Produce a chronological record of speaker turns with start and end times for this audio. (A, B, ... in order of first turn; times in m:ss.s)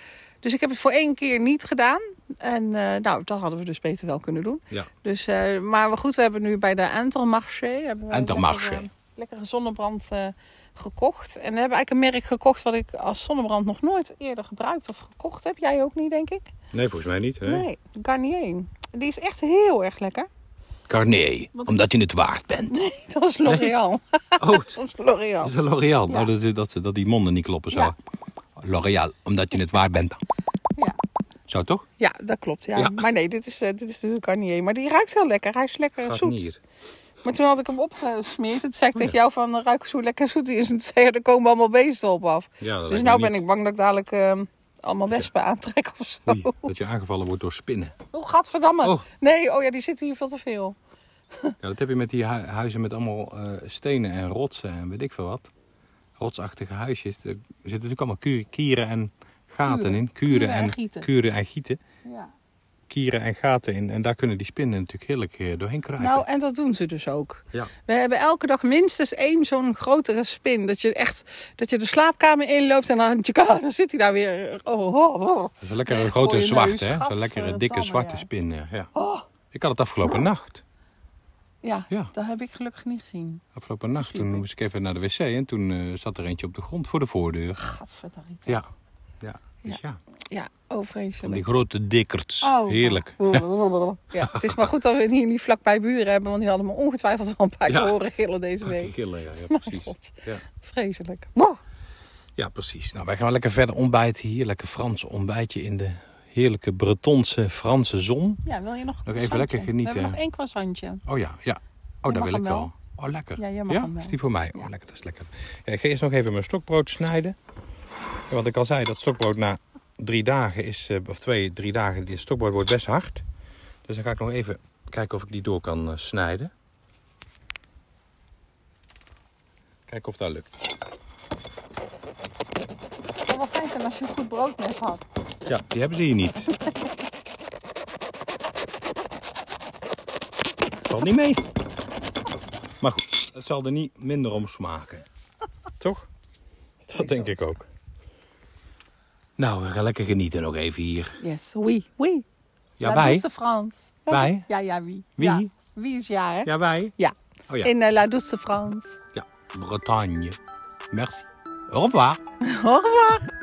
0:00.4-0:16.5 A
0:08.1-0:08.8 B
0:16.7-0:17.7 B
0:17.4-0:20.3 A
0:20.9-0:22.7 B
0:21.6-0:21.9 A
0:22.7-0:25.5 A
0:23.5-0:23.8 B
0:24.4-0:24.8 B
0:25.4-0:28.0 B
0:28.6-0:30.2 B
0:31.5-0:31.8 B
0:32.0-0:36.4 A
0:32.8-0:33.0 B
0:36.0-0:36.6 B
0:37.2-0:46.7 A
0:42.6-0:43.4 B
0:46.3-0:48.0 B
0:48.1-0:50.8 A
0:51.6-0:55.5 B
0:56.2-1:01.8 B
0:59.6-1:01.1 A
1:02.1-1:02.3 A
1:02.9-1:06.2 B
1:06.0-1:18.3 A
1:15.6-1:18.9 B
1:19.0-1:19.2 A
1:19.5-1:20.6 B
1:21.6-1:23.4 A
1:23.6-1:27.6 B
1:24.0-1:24.4 A
1:27.6-1:28.6 A
1:29.2-1:30.0 B
1:30.3-1:31.4 A
1:31.2-1:33.4 B
1:32.4-1:39.0 A
1:34.2-1:34.7 B
1:37.7-1:38.0 B
1:38.6-1:40.4 B
1:39.5-1:41.6 A
1:42.4-1:48.4 B
1:48.4-1:51.0 A
1:49.1-1:50.2 B
1:51.1-1:57.4 B
1:52.1-1:52.7 A
1:53.4-1:54.7 A
1:58.3-2:03.2 B
2:03.9-2:06.5 B
2:09.9-2:10.6 B
2:13.3-2:15.0 A
2:15.5-2:16.5 B
2:20.8-2:21.4 B
2:22.8-2:25.0 B
2:25.8-2:26.1 B
2:26.9-2:27.7 B
2:29.4-2:31.2 B
2:31.2-2:32.2 A
2:32.8-2:33.2 B
2:32.8-2:39.0 A
2:34.1-2:34.5 B
2:35.2-2:35.5 B
2:36.5-2:37.0 B
2:39.1-2:40.4 B
2:40.9-2:42.2 B
2:42.5-2:43.3 A